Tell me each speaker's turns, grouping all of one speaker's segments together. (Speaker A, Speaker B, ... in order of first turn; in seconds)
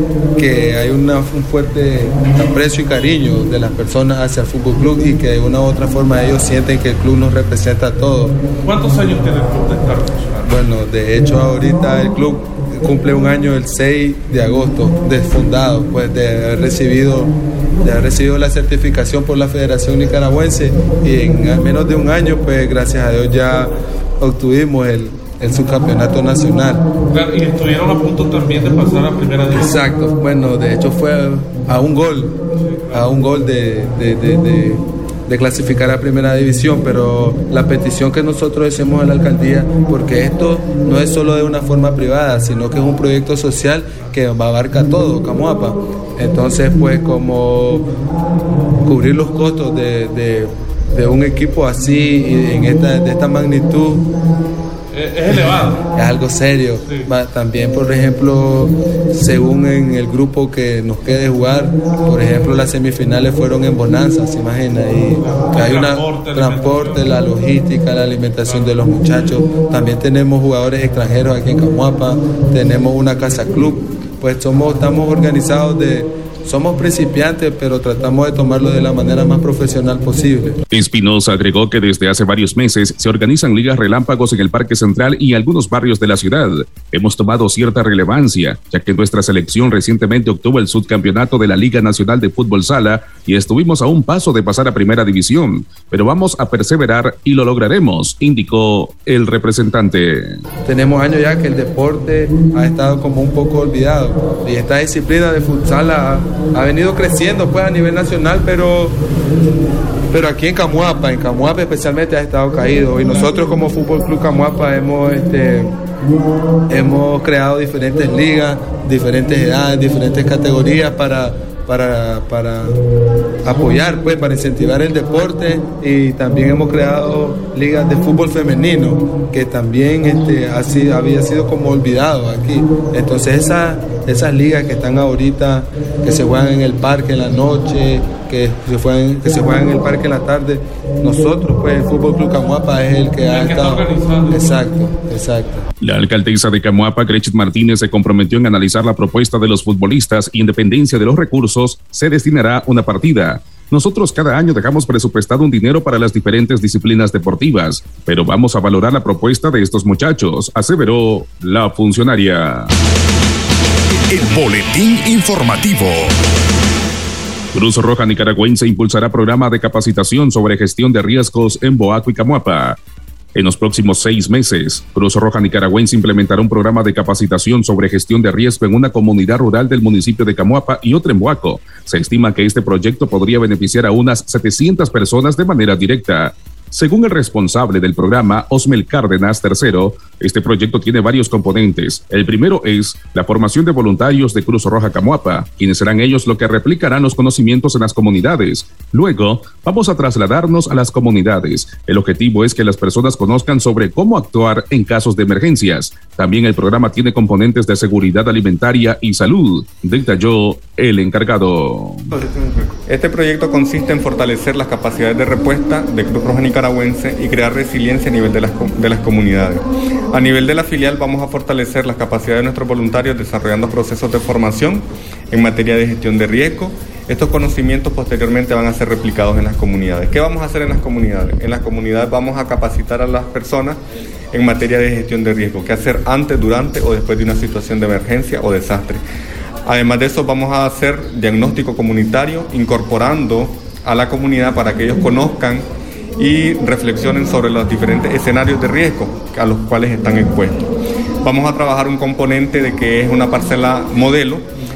Speaker A: 0.3-8.4, 10.4-26.8, 29.5-32.4, 32.9-47.9, 48.8-54.0, 55.3-80.6, 100.6-109.0, 110.1-115.7, 116.7-122.8, 123.4-145.7
Speaker B: 8.6-10.6, 27.1-29.9, 54.9-55.8, 65.2-67.2, 68.4-68.8, 143.2-144.7
Speaker C: 80.7-100.4, 145.8-162.7, 167.5-172.8, 173.3-212.1
Speaker D: 164.1-166.2
Speaker E: 212.8-233.8, 234.3-239.0, 239.7-245.7, 246.2-250.7, 251.2-254.5